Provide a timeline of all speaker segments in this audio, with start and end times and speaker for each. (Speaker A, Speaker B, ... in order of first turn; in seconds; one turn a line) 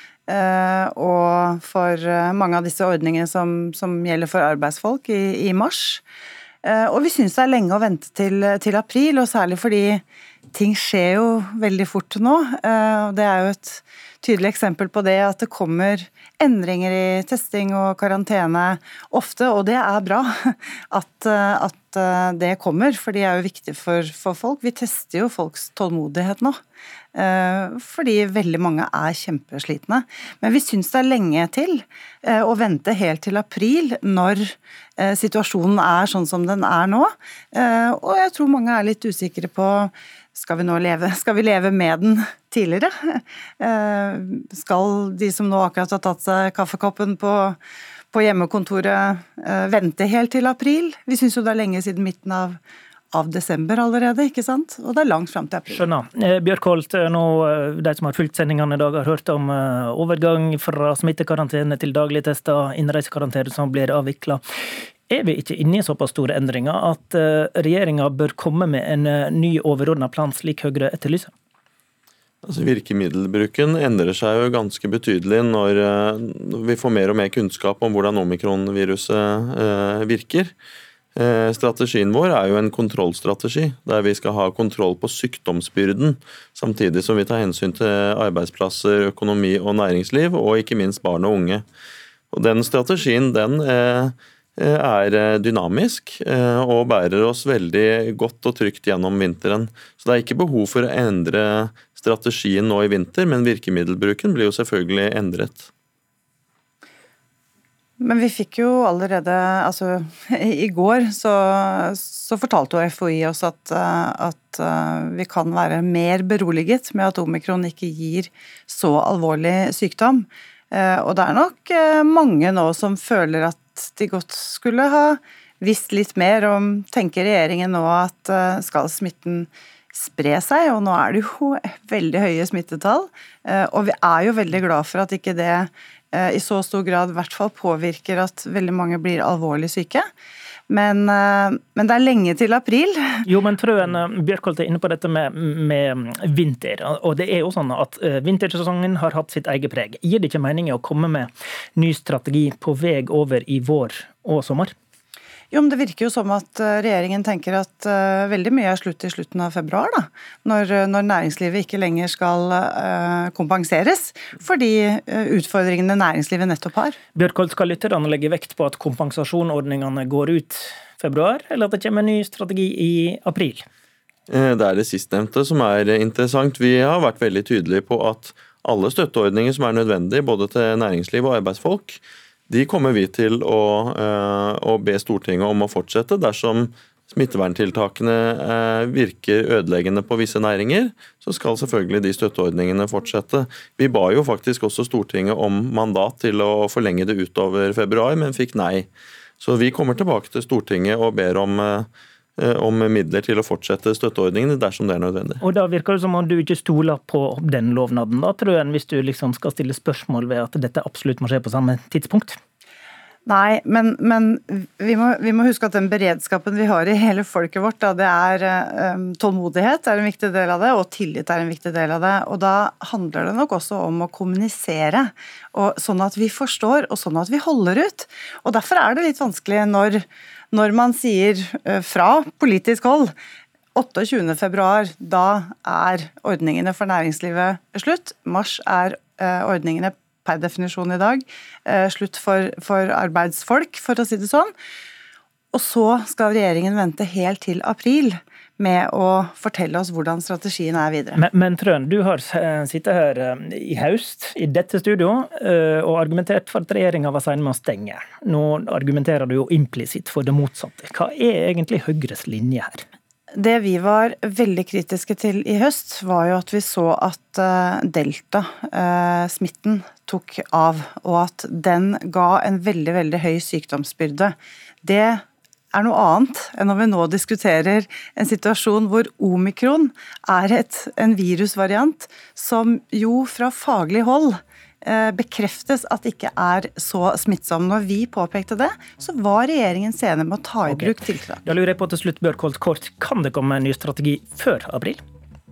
Speaker A: 0.3-6.0
Speaker A: 6.6-26.6
Speaker A: 27.1-47.6
Speaker A: 48.1-52.6
Speaker A: 53.1-55.8
Speaker B: 55.7-64.4
Speaker B: 65.1-71.3
Speaker C: 72.4-80.5
Speaker C: 81.2-91.6
Speaker C: 92.3-105.7
Speaker A: 108.0-140.0
Speaker A: 140.7-143.2
Speaker B: 143.2-154.7
Speaker A: 155.5-167.0
Speaker B: 167.1-173.6
Speaker C: 174.3-198.9
Speaker C: 199.4-205.4
Speaker B: 205.4-212.4
Speaker A: 213.2-233.1
Speaker A: 233.7-244.5
Speaker A: 245.5-251.2
Speaker B: 251.1-262.8
Speaker A: 263.3-291.4
Speaker B: 290.7-295.0